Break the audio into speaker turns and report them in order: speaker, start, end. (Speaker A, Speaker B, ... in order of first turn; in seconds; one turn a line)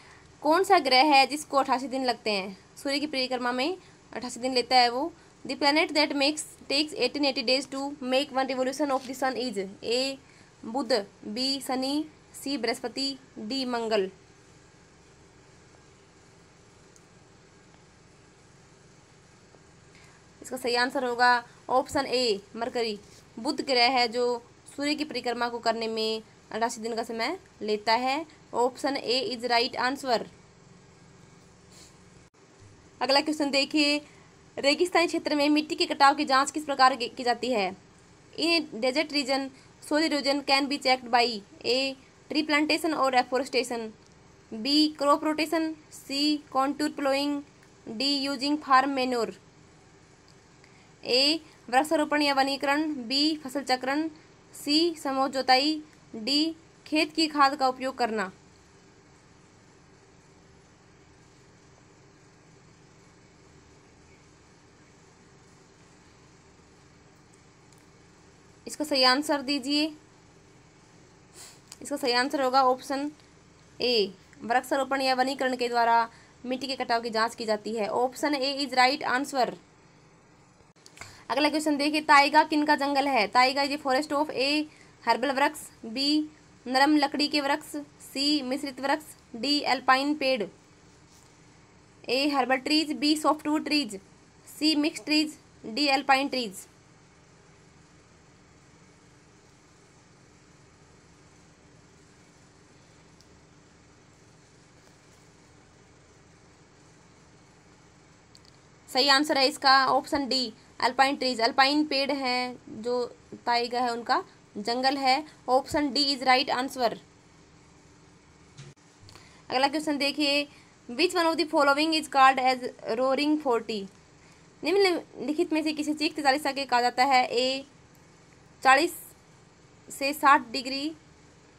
Speaker A: 0.4-14.1
Speaker A: 20.4-30.3
Speaker A: 33.0-34.0
Speaker A: 34.6-37.8
Speaker A: 38.4-43.9
Speaker A: 44.5-49.4
Speaker A: 51.0-58.3
Speaker A: 68.7-70.0
Speaker A: 71.8-73.1
Speaker A: 73.8-79.6
Speaker A: 81.3-90.5
Speaker A: 92.1-96.7
Speaker A: 108.9-117.0
Speaker A: 119.5-123.9
Speaker A: 124.6-127.7
Speaker A: 128.6-129.1
Speaker A: 129.9-131.0